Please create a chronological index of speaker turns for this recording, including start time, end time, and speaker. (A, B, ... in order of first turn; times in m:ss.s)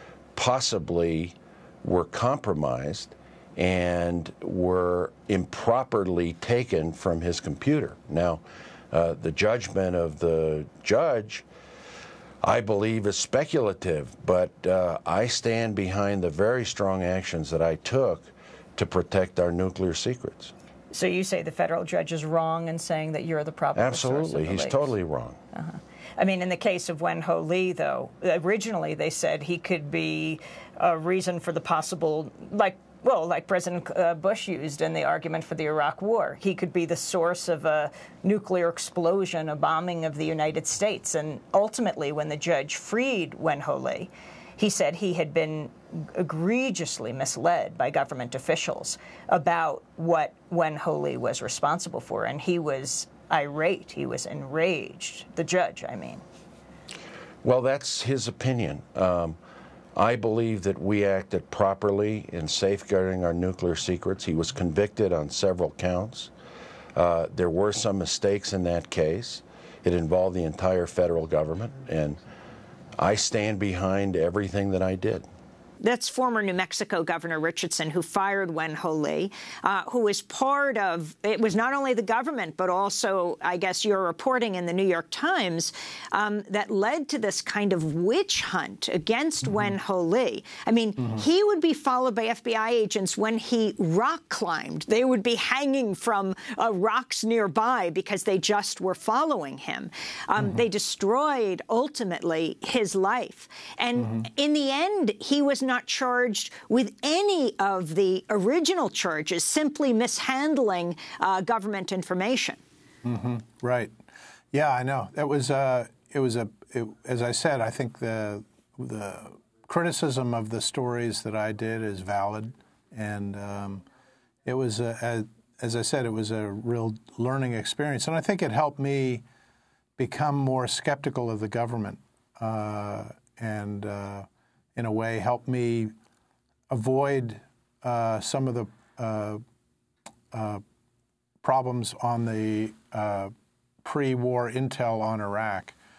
0:00.4-0:11.4 A
0:12.4-0:20.5 A
0:20.9-0:24.9 B
0:23.7-0:25.4 A
0:25.5-0:56.2 B
0:57.4-0:59.4 A
1:00.0-1:06.3 A
1:06.9-1:12.2 A
1:13.0-1:15.2 A
1:15.8-1:52.6 B
1:53.0-1:53.9 C
1:54.5-2:03.8 C
2:04.4-2:09.2 C
2:10.0-2:15.9 C
2:16.7-2:19.4 C
2:20.3-2:20.6 C
2:21.4-2:23.3 C
2:23.8-2:25.7 C